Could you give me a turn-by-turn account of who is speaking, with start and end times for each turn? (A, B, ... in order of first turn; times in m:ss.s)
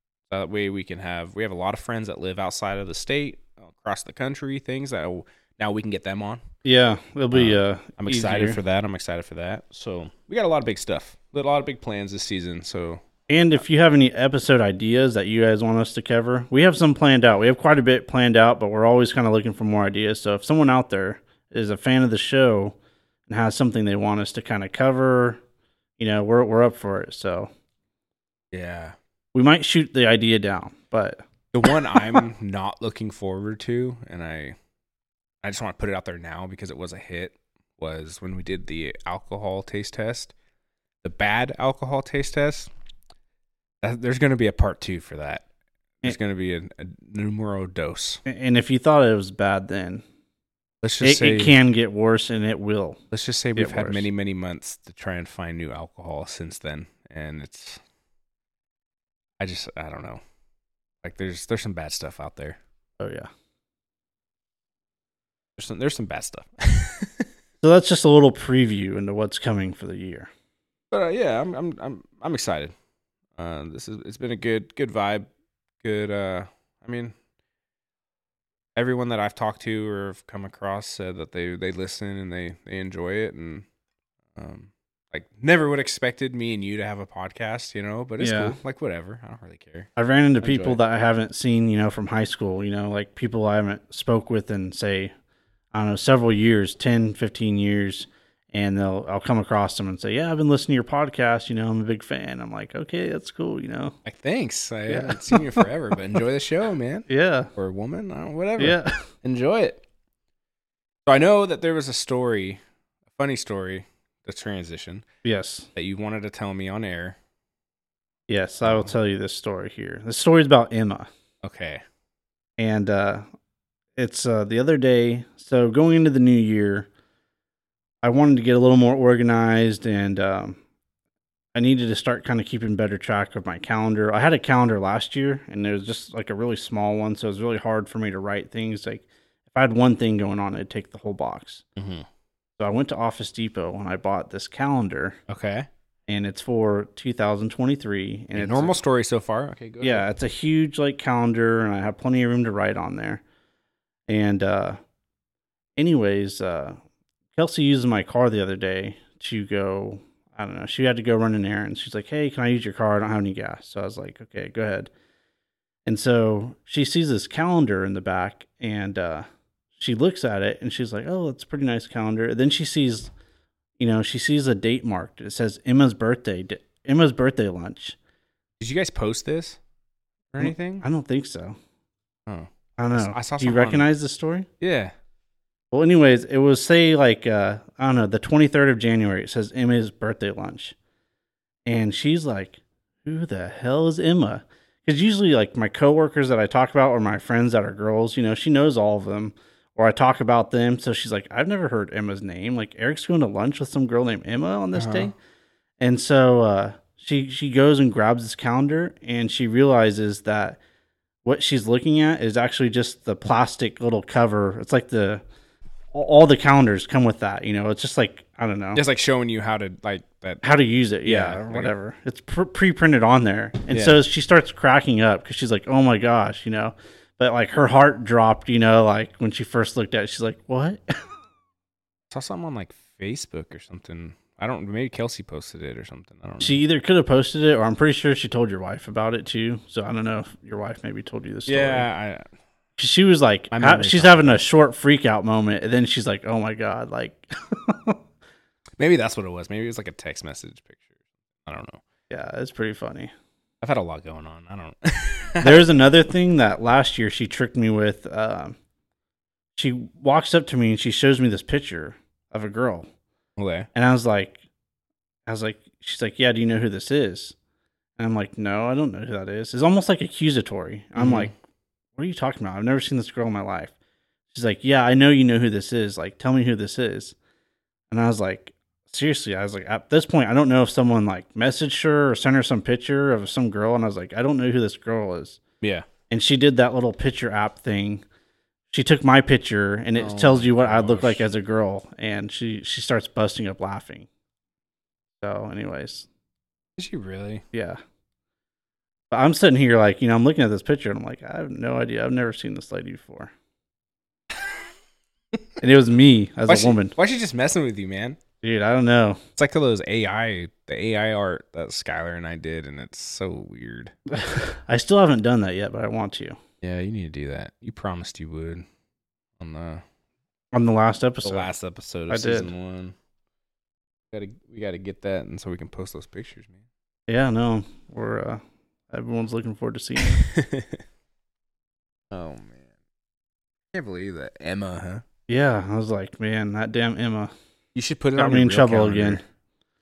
0:00.3-0:06.4 A
0:06.6-0:08.6 B
0:07.3-0:13.0 A
0:13.3-0:22.8 B
0:23.3-0:25.4 B
0:26.0-0:27.5 B
0:28.5-0:29.0 A
0:29.3-0:31.2 B
0:31.5-0:34.6 A
0:35.4-0:40.3 A
0:41.0-0:42.7 A
0:43.8-0:45.4 A
0:46.0-0:48.2 A
0:48.3-0:50.0 B
0:50.8-0:51.6 A
0:51.0-0:53.0 B
0:53.1-0:57.8 A
0:53.6-0:54.1 B
0:59.4-1:00.2 A
1:01.0-1:02.6 A
1:03.0-1:03.3 B
1:05.6-1:07.3 A
1:07.6-1:10.3 B
1:10.9-1:12.7 A
1:13.4-1:15.3 A
1:15.8-1:17.2 A
1:18.8-1:23.6 A
1:24.4-1:29.9 A
1:28.2-1:28.6 B
1:30.0-1:35.1 B
1:30.4-1:30.8 A
1:35.7-1:44.0 B
1:44.0-1:49.8 A
1:44.9-1:45.7 B
1:47.1-1:47.5 B
1:48.6-1:49.0 B
1:51.1-1:52.6 A
1:53.2-1:55.0 A
1:55.2-1:55.7 B
1:55.8-1:57.2 A
1:58.3-2:01.1 B
1:58.6-1:58.9 A
2:01.4-2:01.8 A
2:02.6-2:03.2 B
2:04.0-2:06.9 B
2:08.0-2:10.6 B
2:11.6-2:21.6 B
2:21.8-2:22.1 A
2:22.6-2:25.2 B
2:25.3-2:25.7 A
2:26.1-2:28.8 B
2:28.4-2:30.1 A
2:29.8-2:33.2 B
2:34.1-2:34.8 B
2:35.8-2:36.8 B
2:37.4-2:44.9 B
2:45.9-2:49.2 B
2:49.8-2:53.1 B
2:53.8-2:58.0 B
2:58.6-2:59.6 A
3:00.3-3:00.9 A
3:00.4-3:01.6 B
3:02.3-3:03.9 A
3:02.8-3:04.5 B
3:04.6-3:04.9 A
3:05.7-3:10.8 B
3:11.7-3:25.2 B
3:24.7-3:25.1 A
3:25.8-3:30.6 B
3:31.2-3:35.2 B
3:35.9-3:38.8 B
3:38.8-3:40.4 A
3:40.4-3:50.8 B
3:41.0-3:41.7 A
3:43.7-3:44.0 A
3:52.1-3:56.6 A
3:56.4-4:01.9 B
4:01.5-4:02.2 A
4:02.8-4:08.0 B
4:03.5-4:04.4 A
4:08.8-4:10.9 A
4:11.4-4:11.8 A
4:12.1-4:13.1 B
4:13.6-4:15.8 A
4:15.4-4:18.6 B
4:19.6-4:22.9 B
4:23.4-4:23.7 A
4:23.8-4:24.4 B
4:25.3-4:27.4 B
4:28.0-4:31.3 B
4:31.0-4:31.3 A
4:32.0-4:33.7 B
4:34.3-4:37.2 B
4:37.9-4:45.4 B
4:45.6-4:45.9 A
4:46.1-4:48.0 B
4:48.7-4:54.1 B
4:50.0-4:51.2 A
4:55.2-4:56.1 B
4:56.8-4:57.4 A
4:57.5-4:57.8 B
4:59.1-5:03.3 B
5:05.6-5:07.0 B
5:06.5-5:08.2 A
5:08.4-5:09.2 B
5:09.4-5:13.9 A
5:14.1-5:16.4 B
5:16.6-5:18.6 A
5:19.4-5:19.8 A
5:20.5-5:21.5 B
5:21.2-5:23.0 A
5:22.1-5:22.5 B
5:24.1-5:26.6 A
5:27.1-5:30.2 B
5:30.0-5:30.8 A
5:32.1-5:32.6 A
5:33.7-5:35.0 A
5:35.3-5:37.3 B
5:37.8-5:39.2 A
5:38.2-5:39.2 B